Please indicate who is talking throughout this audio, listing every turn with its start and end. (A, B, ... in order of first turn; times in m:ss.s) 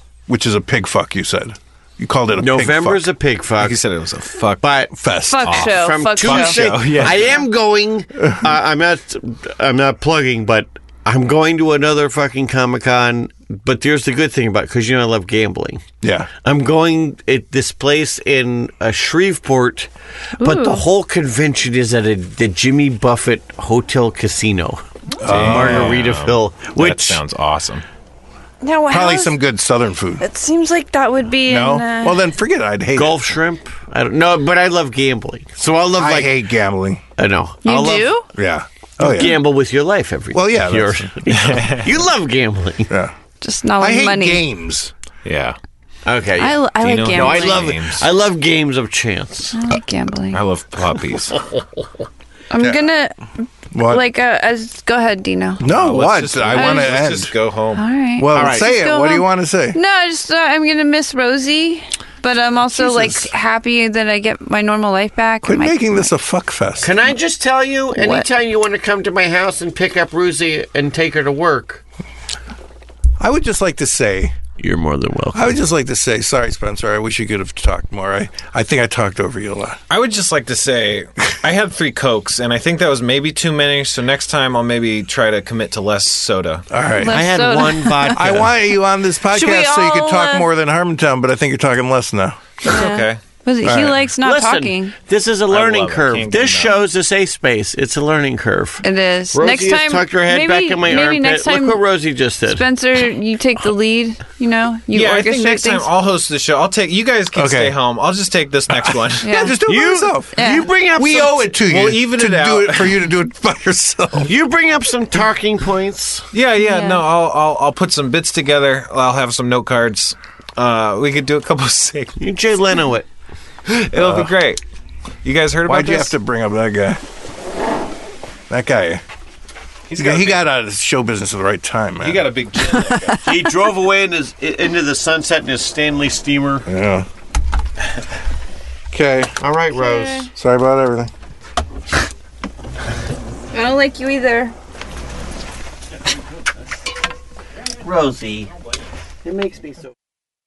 0:00.3-0:03.1 A
0:02.4-0:03.8 B
0:03.6-0:04.7 C
0:04.6-0:04.9 B
0:04.9-0:05.6 A
0:05.3-0:06.7 D
0:05.4-0:07.4 C
0:05.6-0:15.8 B
0:06.8-0:07.2 A
0:16.0-0:16.3 A
0:16.4-0:19.9 B
0:20.4-0:20.8 D
0:20.4-0:27.2 B
0:25.2-0:26.1 A
0:25.3-0:27.8 C
0:28.6-0:29.4 D
0:28.9-0:30.2 A
0:30.2-0:32.2 D
0:31.5-0:33.2 A
0:32.9-0:36.4 B
0:36.0-0:37.0 A
0:37.2-0:38.1 B
0:37.6-0:38.3 D
0:38.3-0:39.5 A
0:39.0-0:42.9 B
0:40.3-0:41.1 A
0:41.3-0:41.9 C
0:43.4-0:44.4 D
0:43.8-0:44.9 A
0:45.2-0:45.6 C
0:46.0-0:49.6 B
0:46.4-0:47.7 D
0:46.8-0:48.1 C
0:49.5-0:50.4 D
0:50.3-0:51.4 C
0:52.5-0:55.6 D
0:53.7-0:54.1 A
0:55.6-0:57.3 A
0:55.7-0:57.8 C
0:56.5-0:57.0 D
0:57.8-1:05.8 D
0:58.2-0:59.8 A
0:58.3-0:58.7 B
1:02.7-1:03.3 A
1:05.4-1:07.0 A
1:06.8-1:11.8 B
1:08.0-1:08.3 D
1:13.2-1:14.4 A
1:14.6-1:15.6 B
1:15.3-1:19.8 A
1:19.9-1:26.6 C
1:26.7-1:27.3 A
1:27.0-1:28.3 D
1:27.1-1:28.5 B
1:28.1-1:32.7 A
1:29.3-1:30.5 D
1:32.7-1:33.2 C
1:32.7-1:35.0 D
1:33.6-1:34.0 A
1:34.2-1:42.6 B
1:35.5-1:36.8 C
1:38.8-1:41.8 D
1:42.4-1:45.9 D
1:44.9-1:49.5 C
1:47.4-1:47.8 A
1:48.7-1:50.3 A
1:49.2-1:49.6 D
1:49.6-1:51.6 B
1:50.3-1:50.7 D
1:51.0-1:54.3 A
1:51.7-1:53.0 C
1:54.2-1:56.3 B
1:56.3-2:02.2 C
1:56.6-1:57.0 D
2:02.2-2:03.1 B
2:03.7-2:04.6 C
2:04.0-2:04.3 A
2:05.2-2:06.1 C
2:05.7-2:07.0 A
2:08.5-2:09.0 A
2:09.9-2:10.4 C
2:10.0-2:12.3 A
2:12.0-2:13.2 C
2:12.8-2:13.2 D
2:13.2-2:16.7 B
2:16.7-2:17.1 A
2:18.9-2:19.3 A
2:19.4-2:20.3 B
2:19.7-2:20.3 D
2:20.3-2:21.1 A
2:23.5-2:24.5 D
2:27.8-2:28.5 B
2:29.2-2:29.9 B